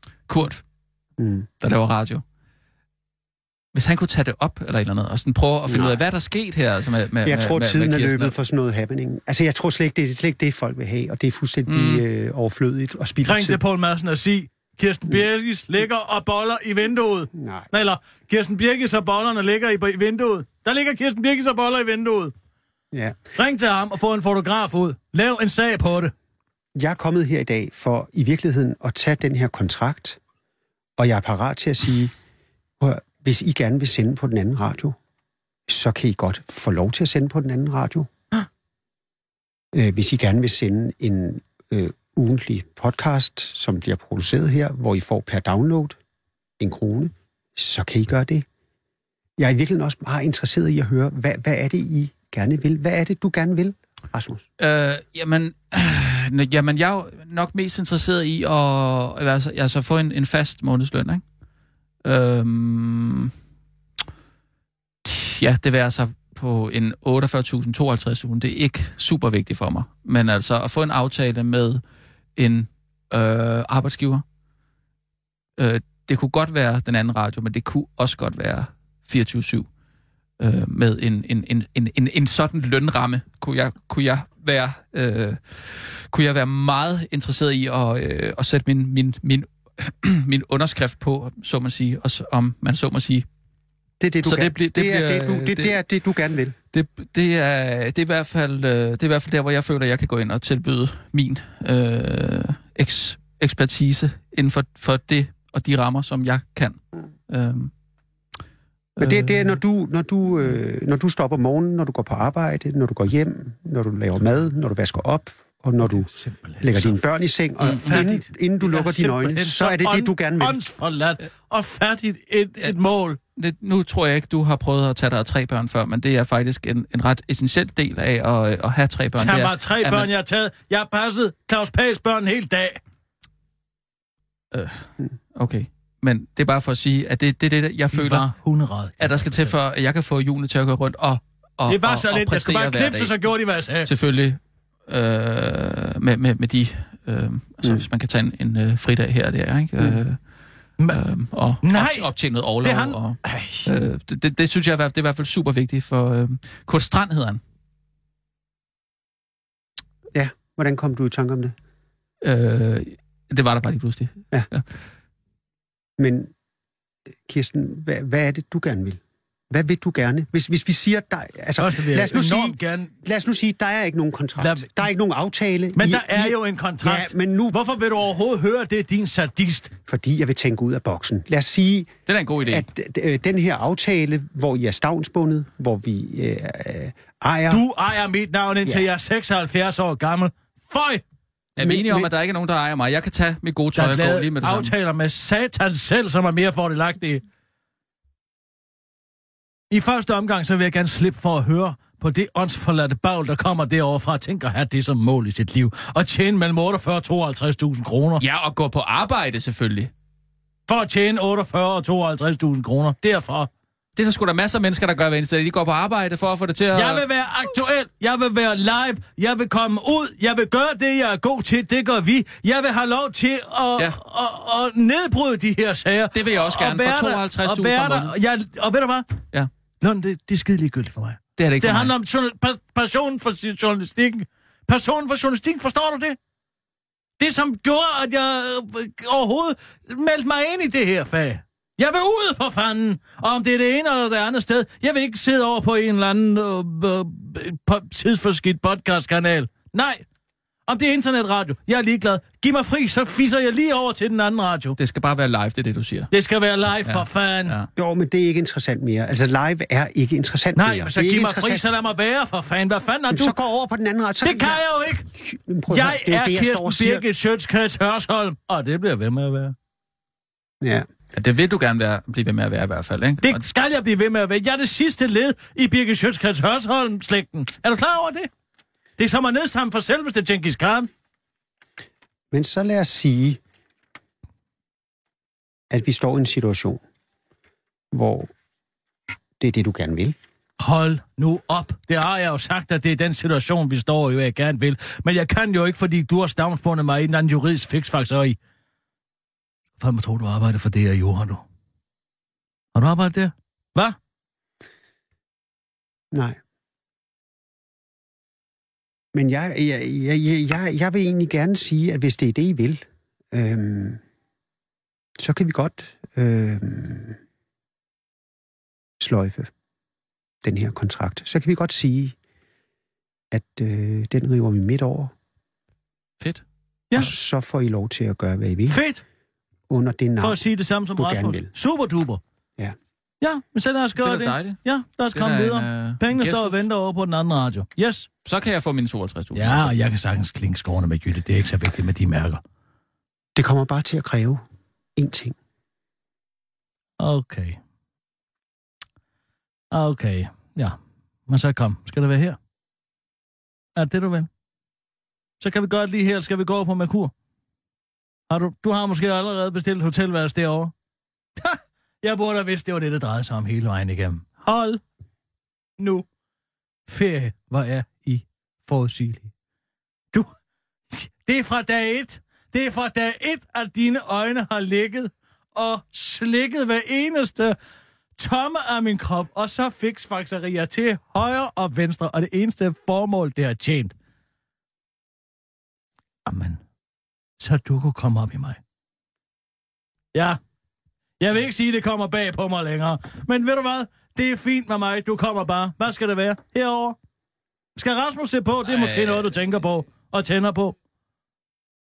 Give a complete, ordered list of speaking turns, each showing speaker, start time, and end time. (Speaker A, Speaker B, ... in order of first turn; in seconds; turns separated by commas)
Speaker A: 0.3-0.6, Speaker B: 1.2-1.5, Speaker A: 1.6-2.2, Speaker A: 3.7-8.3, Speaker B: 5.7-6.0, Speaker B: 7.2-13.6, Speaker A: 11.7-12.0, Speaker C: 13.2-22.3, Speaker B: 17.3-17.7, Speaker B: 22.9-23.2, Speaker C: 23.4-26.1, Speaker B: 26.8-30.2, Speaker B: 31.0-32.1, Speaker B: 32.8-35.0, Speaker B: 35.7-38.1, Speaker B: 39.7-46.0, Speaker B: 46.6-48.5, Speaker B: 49.4-54.4, Speaker A: 54.6-61.2, Speaker A: 62.0-63.3, Speaker A: 65.0-71.8, Speaker A: 72.3-74.2, Speaker A: 75.6-79.7, Speaker A: 80.4-93.2, Speaker B: 94.0-96.5, Speaker A: 94.2-95.8, Speaker A: 96.7-107.7, Speaker A: 109.0-109.6, Speaker B: 109.0-116.1, Speaker C: 115.8-117.0, Speaker B: 116.6-120.6, Speaker C: 117.6-123.2, Speaker A: 117.6-117.9, Speaker A: 123.3-130.1, Speaker C: 129.2-132.8, Speaker A: 134.5-138.3, Speaker C: 137.9-139.5, Speaker A: 139.0-143.2, Speaker C: 141.7-143.9, Speaker A: 143.8-150.2, Speaker A: 150.9-157.4, Speaker C: 151.6-152.1, Speaker C: 152.6-153.7, Speaker B: 160.1-161.5, Speaker A: 162.2-164.7, Speaker B: 166.0-166.3, Speaker B: 167.2-177.6, Speaker C: 171.6-172.9, Speaker C: 174.4-174.8, Speaker C: 175.8-179.7, Speaker B: 179.9-187.7, Speaker A: 182.1-182.7, Speaker C: 187.5-191.0, Speaker A: 191.6-194.7, Speaker B: 191.6-192.1, Speaker C: 193.8-197.2, Speaker C: 199.7-208.2, Speaker A: 208.2-209.9, Speaker C: 210.7-213.5, Speaker A: 213.9-217.0, Speaker C: 216.7-229.1, Speaker A: 226.1-228.1, Speaker C: 229.8-236.2, Speaker A: 231.4-231.9, Speaker C: 237.2-250.0, Speaker C: 250.7-254.8, Speaker A: 254.8-256.1, Speaker C: 256.1-257.6, Speaker A: 256.8-257.7, Speaker B: 257.8-261.6, Speaker C: 260.6-263.4, Speaker B: 263.1-267.0, Speaker C: 264.2-265.1, Speaker C: 265.7-269.5, Speaker B: 270.6-270.9, Speaker A: 271.1-273.4, Speaker C: 273.2-278.3, Speaker C: 279.0-280.9, Speaker B: 282.3-283.4, Speaker B: 285.7-286.8, Speaker B: 287.9-288.3, Speaker B: 289.4-290.1, Speaker C: 290.6-298.4, Speaker C: 299.8-301.4, Speaker C: 302.7-303.9, Speaker B: 306.1-306.4, Speaker B: 309.1-314.0, Speaker B: 315.2-317.2, Speaker B: 319.0-319.5, Speaker B: 320.4-322.1, Speaker B: 323.3-325.1, Speaker B: 326.9-328.8, Speaker C: 328.7-329.0, Speaker B: 329.7-330.4, Speaker C: 330.2-332.2, Speaker B: 330.9-331.5, Speaker C: 333.2-338.1, Speaker A: 334.0-334.6, Speaker A: 335.1-336.6, Speaker A: 338.2-339.7, Speaker C: 339.3-342.4, Speaker B: 343.4-344.4, Speaker B: 344.9-345.4, Speaker C: 347.0-347.6, Speaker C: 349.7-350.8, Speaker C: 351.3-352.4, Speaker C: 353.8-354.3, Speaker C: 355.4-357.1, Speaker C: 358.3-360.7, Speaker C: 361.4-364.8, Speaker C: 365.8-366.0, Speaker C: 366.9-369.3, Speaker C: 370.9-377.6, Speaker C: 378.2-383.9, Speaker C: 386.2-386.6, Speaker C: 387.4-388.6, Speaker C: 390.1-390.4, Speaker C: 391.2-396.9, Speaker C: 397.8-400.7, Speaker A: 398.6-399.4